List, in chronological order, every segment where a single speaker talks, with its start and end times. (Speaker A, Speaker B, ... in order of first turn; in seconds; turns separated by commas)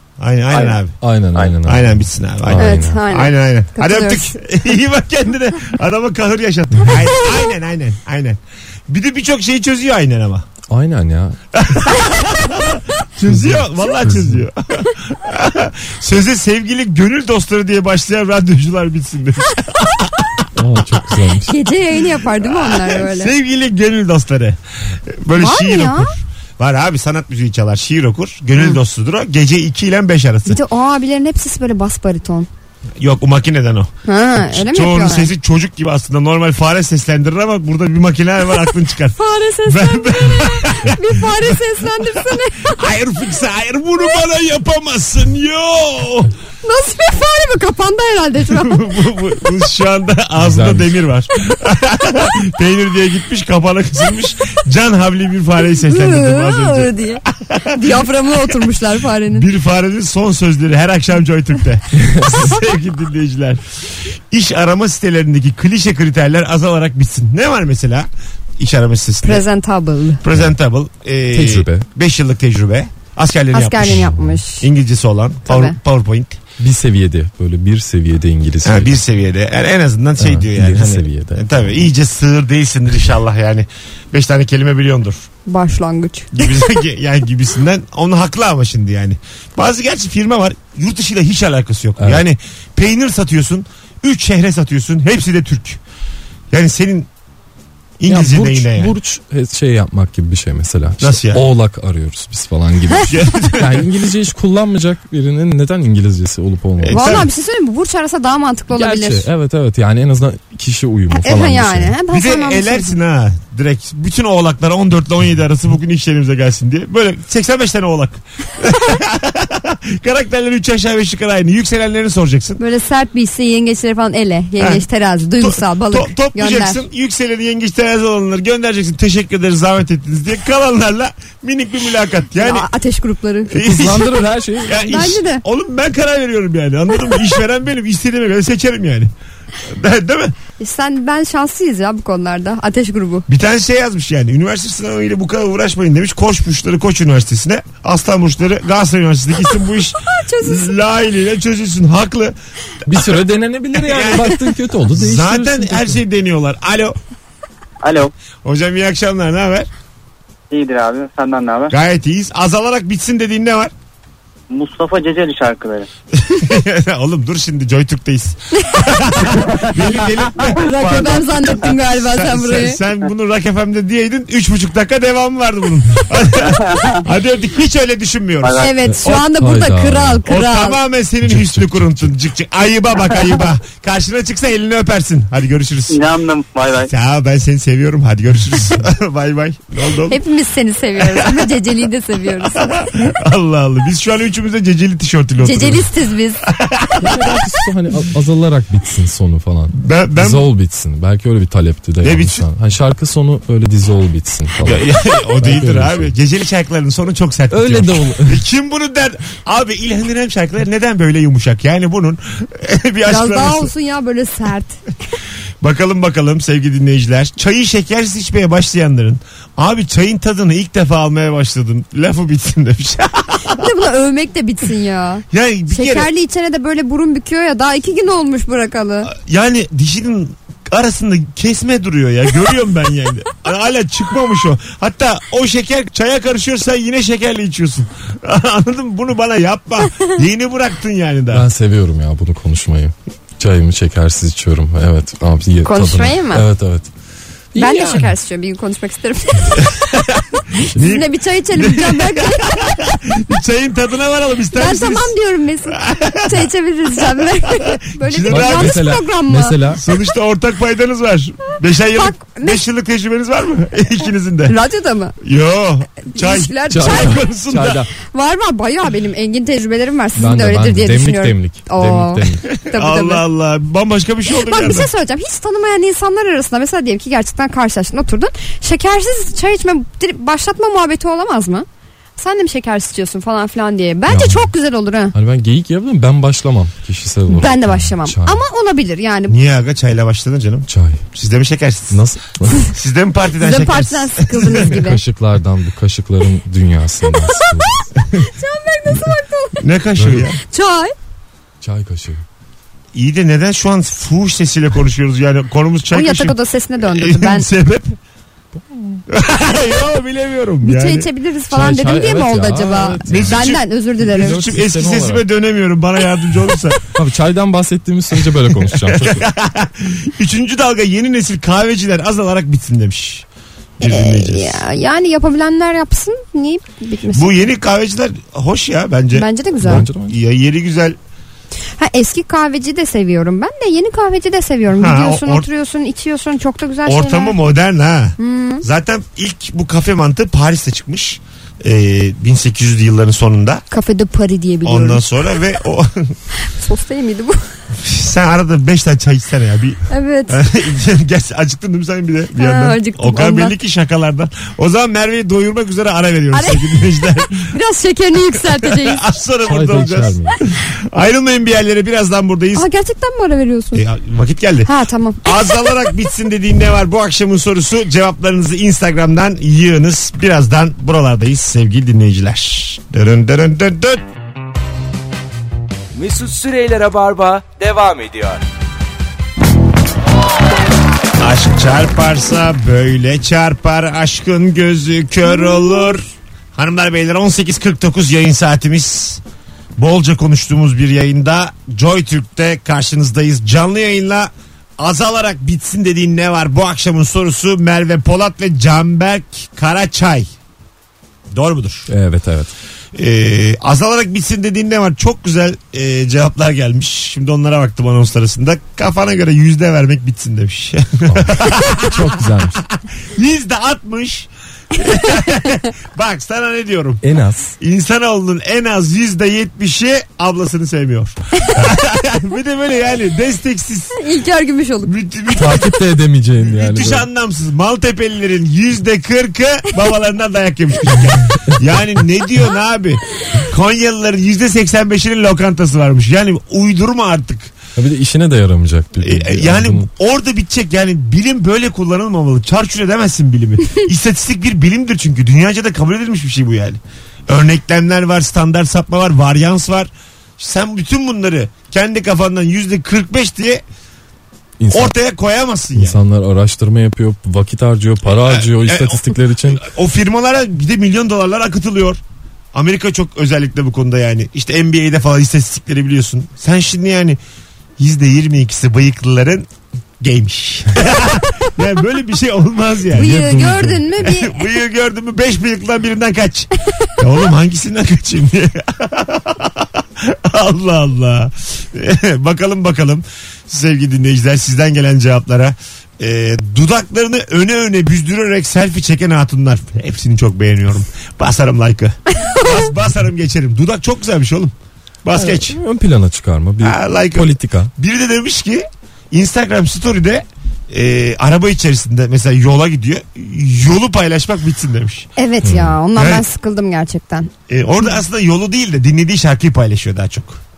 Speaker A: 0.2-1.0, Speaker B: 1.0-3.0, Speaker A: 1.6-10.5, Speaker C: 2.6-4.4, Speaker B: 10.7-11.4, Speaker A: 11.6-20.5, Speaker B: 13.2-14.4, Speaker B: 20.6-21.6, Speaker C: 21.5-23.3, Speaker A: 22.3-30.6, Speaker C: 25.4-26.1, Speaker C: 30.5-32.5, Speaker A: 33.0-41.6, Speaker C: 34.1-35.3, Speaker C: 39.2-42.8, Speaker A: 42.2-46.3, Speaker C: 46.6-49.0, Speaker A: 48.5-58.0, Speaker B: 50.4-50.9, Speaker C: 55.8-59.5, Speaker A: 59.3-63.6, Speaker B: 62.0-62.4, Speaker A: 64.3-68.1, Speaker A: 68.6-69.5, Speaker C: 69.2-70.2, Speaker A: 70.2-76.4, Speaker B: 71.3-71.9, Speaker C: 73.5-74.7, Speaker B: 74.0-74.4, Speaker C: 75.5-75.8, Speaker B: 76.6-79.0, Speaker A: 78.6-85.3, Speaker B: 80.2-81.5, Speaker C: 85.5-86.8, Speaker A: 86.3-95.8, Speaker B: 92.0-92.2, Speaker A: 96.5-97.1, Speaker A: 98.0-98.9, Speaker B: 98.1-107.3, Speaker A: 101.0-101.4, Speaker A: 103.1-103.9, Speaker A: 106.8-107.3, Speaker C: 106.9-109.3, Speaker B: 108.7-112.0, Speaker C: 111.1-113.0, Speaker A: 112.1-122.6, Speaker C: 122.6-126.8, Speaker A: 124.6-124.8, Speaker A: 125.4-132.7, Speaker C: 132.4-133.6, Speaker A: 133.5-134.1, Speaker B: 133.6-134.9, Speaker A: 134.6-139.1, Speaker C: 134.8-135.4, Speaker A: 139.6-140.3, Speaker C: 140.6-143.3, Speaker A: 143.3-152.4, Speaker C: 149.5-150.8, Speaker B: 152.9-156.0, Speaker A: 153.7-157.0, Speaker D: 157.8-158.1, Speaker A: 158.4-159.7, Speaker D: 160.5-161.7, Speaker A: 161.7-163.7, Speaker D: 164.5-165.9, Speaker A: 166.1-179.2, Speaker C: 168.6-168.9, Speaker D: 169.5-171.3, Speaker C: 170.4-172.8, Speaker D: 176.6-177.0, Speaker D: 178.4-178.7, Speaker C: 178.6-180.8, Speaker B: 178.8-180.2, Speaker A: 180.3-186.1, Speaker B: 181.2-182.1, Speaker D: 185.9-186.9, Speaker A: 186.8-190.2, Speaker C: 190.1-192.8, Speaker A: 191.0-191.5, Speaker A: 192.3-195.9, Speaker C: 195.4-196.4, Speaker A: 196.5-197.5, Speaker B: 197.0-206.1, Speaker A: 199.8-200.5, Speaker A: 202.0-202.4, Speaker A: 204.6-213.7, Speaker B: 207.5-208.4, Speaker C: 213.1-214.8, Speaker A: 215.6-223.7, Speaker C: 223.5-229.1, Speaker A: 225.3-226.1, Speaker A: 229.1-241.5, Speaker B: 241.3-246.9, Speaker C: 245.6-246.4, Speaker B: 247.6-248.1, Speaker C: 247.6-249.7, Speaker A: 249.6-250.2, Speaker A: 250.7-255.1, Speaker C: 250.8-252.6, Speaker C: 254.6-259.6, Speaker A: 255.7-256.5, Speaker A: 257.4-258.8, Speaker B: 258.3-259.8, Speaker A: 259.7-264.6, Speaker C: 261.9-262.6, Speaker C: 264.5-265.1, Speaker A: 265.2-267.9, Speaker C: 266.1-267.3, Speaker B: 266.7-267.9, Speaker C: 268.0-273.2, Speaker B: 270.2-272.5, Speaker A: 272.6-274.9, Speaker C: 274.3-281.7, Speaker C: 282.2-285.1, Speaker B: 284.1-284.5, Speaker B: 285.1-288.4, Speaker C: 287.3-289.4, Speaker A: 289.3-292.0, Speaker B: 290.7-291.0, Speaker B: 291.9-292.7, Speaker A: 292.7-294.7, Speaker C: 293.4-295.0, Speaker B: 294.6-297.8, Speaker C: 297.1-299.6, Speaker A: 298.9-300.4, Speaker B: 300.0-300.3, Speaker C: 300.5-300.9, Speaker B: 301.6-302.2, Speaker A: 302.9-308.0, Speaker C: 305.9-307.5, Speaker B: 308.7-309.0, Speaker A: 309.1-311.1, Speaker C: 310.6-314.4, Speaker B: 311.5-315.2, Speaker A: 313.1-316.8, Speaker B: 316.9-319.2, Speaker A: 318.6-323.3, Speaker A: 323.8-324.6, Speaker C: 323.8-327.4, Speaker A: 327.1-331.0, Speaker C: 329.1-329.9, Speaker B: 329.6-330.2, Speaker C: 331.8-337.4, Speaker A: 334.8-335.5, Speaker A: 336.9-343.6, Speaker C: 338.2-338.7, Speaker C: 343.7-345.1, Speaker A: 344.6-346.2, Speaker C: 346.4-347.4, Speaker A: 347.8-357.5, Speaker C: 349.9-350.5, Speaker C: 352.4-353.6, Speaker C: 356.3-359.0, Speaker A: 358.5-362.7, Speaker B: 359.4-360.4, Speaker C: 362.6-363.8, Speaker A: 363.7-364.7, Speaker C: 364.7-366.0, Speaker A: 365.2-374.1, Speaker E: 375.9-378.4, Speaker A: 381.2-389.2, Speaker A: 389.8-400.3, Speaker A: 401.3-401.9, Speaker B: 401.9-402.5, Speaker A: 402.9-412.2, Speaker B: 411.1-412.6, Speaker A: 412.8-417.0, Speaker B: 417.0-417.5, Speaker A: 417.6-424.0, Speaker C: 424.0-424.9, Speaker A: 424.8-425.8, Speaker B: 425.4-427.1, Speaker A: 426.4-437.6, Speaker B: 437.8-439.9, Speaker A: 439.0-453.6, Speaker B: 454.6-454.9, Speaker A: 454.7-456.0, Speaker B: 455.8-459.7, Speaker A: 458.2-462.0, Speaker A: 462.5-467.2, Speaker A: 467.8-469.5, Speaker A: 470.0-494.5, Speaker C: 472.9-474.5, Speaker A: 495.1-495.6, Speaker B: 495.2-497.7, Speaker A: 496.6-505.1, Speaker C: 505.2-507.3, Speaker B: 505.4-505.8, Speaker A: 506.0-506.2, Speaker A: 507.5-510.4